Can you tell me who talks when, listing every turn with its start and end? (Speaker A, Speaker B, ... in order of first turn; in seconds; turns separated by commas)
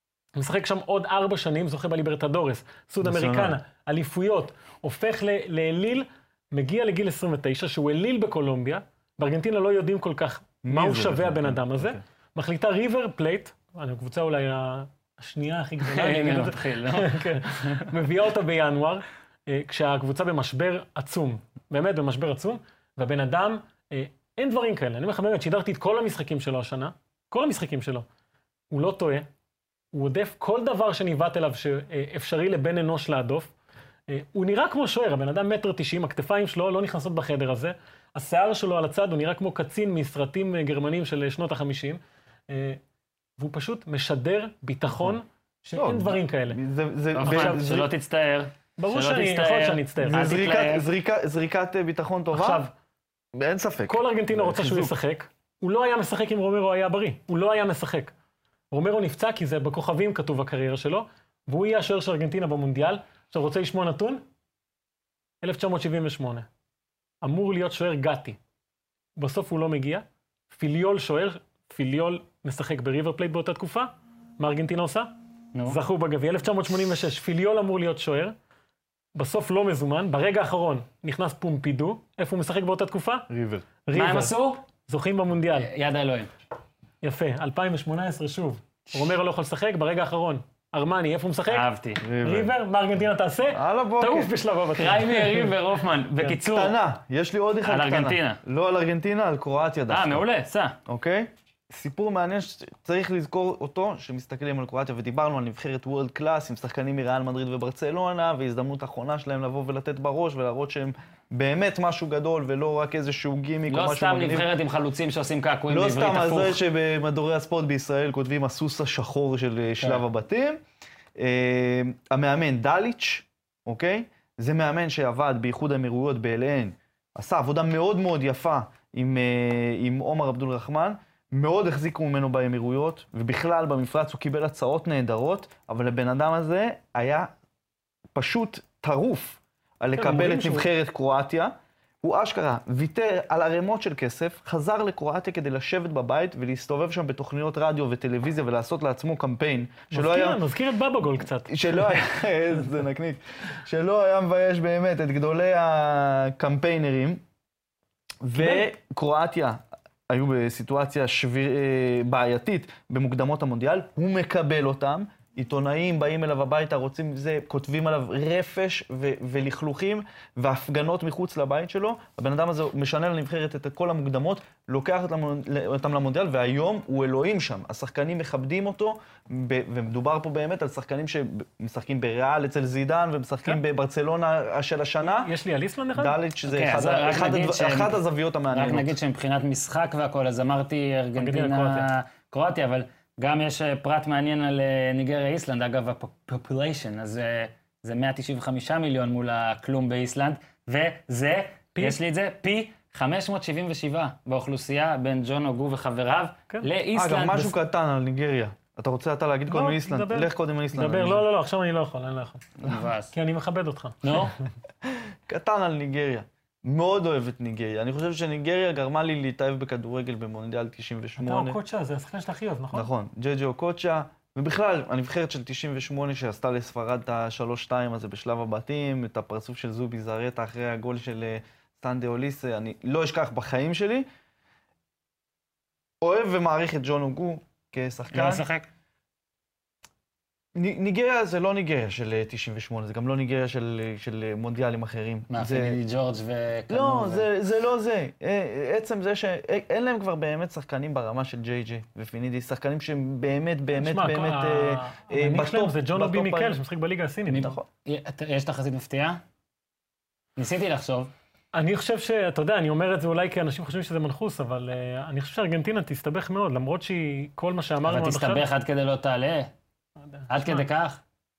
Speaker A: 0.4-28.1, Speaker B: 3.0-3.6, Speaker B: 10.6-12.0, Speaker C: 15.9-17.9, Speaker A: 28.7-29.3, Speaker A: 29.9-33.5, Speaker A: 34.1-42.8, Speaker A: 43.4-46.6, Speaker B: 45.8-47.9, Speaker C: 47.1-50.9, Speaker A: 47.2-47.7, Speaker A: 48.8-50.3, Speaker B: 50.0-52.6, Speaker A: 52.3-52.7, Speaker B: 53.3-55.0, Speaker A: 53.9-58.1, Speaker A: 58.7-64.2, Speaker A: 65.4-66.5, Speaker A: 67.2-68.4, Speaker A: 69.2-75.1, Speaker A: 75.7-78.3, Speaker A: 79.2-83.3, Speaker B: 83.3-83.7, Speaker A: 83.9-85.7, Speaker C: 83.9-84.6, Speaker C: 85.5-86.3, Speaker A: 87.0-95.5, Speaker C: 91.5-92.0, Speaker B: 92.0-92.5, Speaker B: 93.5-94.3, Speaker C: 94.8-96.7, Speaker B: 96.3-100.2, Speaker C: 97.7-98.4, Speaker C: 99.9-100.8, Speaker B: 100.9-114.5, Speaker C: 113.7-116.6, Speaker B: 115.7-120.6, Speaker B: 121.2-137.3, Speaker B: 138.2-150.4, Speaker A: 140.0-140.7, Speaker A: 149.9-152.1, Speaker B: 151.5-157.2, Speaker B: 158.2-185.3, Speaker A: 158.4-158.7, Speaker A: 185.1-186.2, Speaker B: 185.9-188.9, Speaker C: 186.5-207.6, Speaker A: 191.2-191.9, Speaker B: 206.9-211.2, Speaker A: 209.5-214.4, Speaker C: 212.6-213.1, Speaker C: 214.0-214.3, Speaker B: 214.8-221.6, Speaker A: 221.2-222.9, Speaker B: 222.7-234.1, Speaker B: 236.0-238.4, Speaker C: 238.1-238.7, Speaker B: 240.6-245.8, Speaker C: 245.3-247.3, Speaker B: 246.7-256.6, Speaker A: 253.8-257.6, Speaker C: 257.3-259.2, Speaker C: 260.4-261.1, Speaker A: 261.6-268.5, Speaker C: 267.8-269.5, Speaker A: 270.1-270.7, Speaker C: 270.3-271.0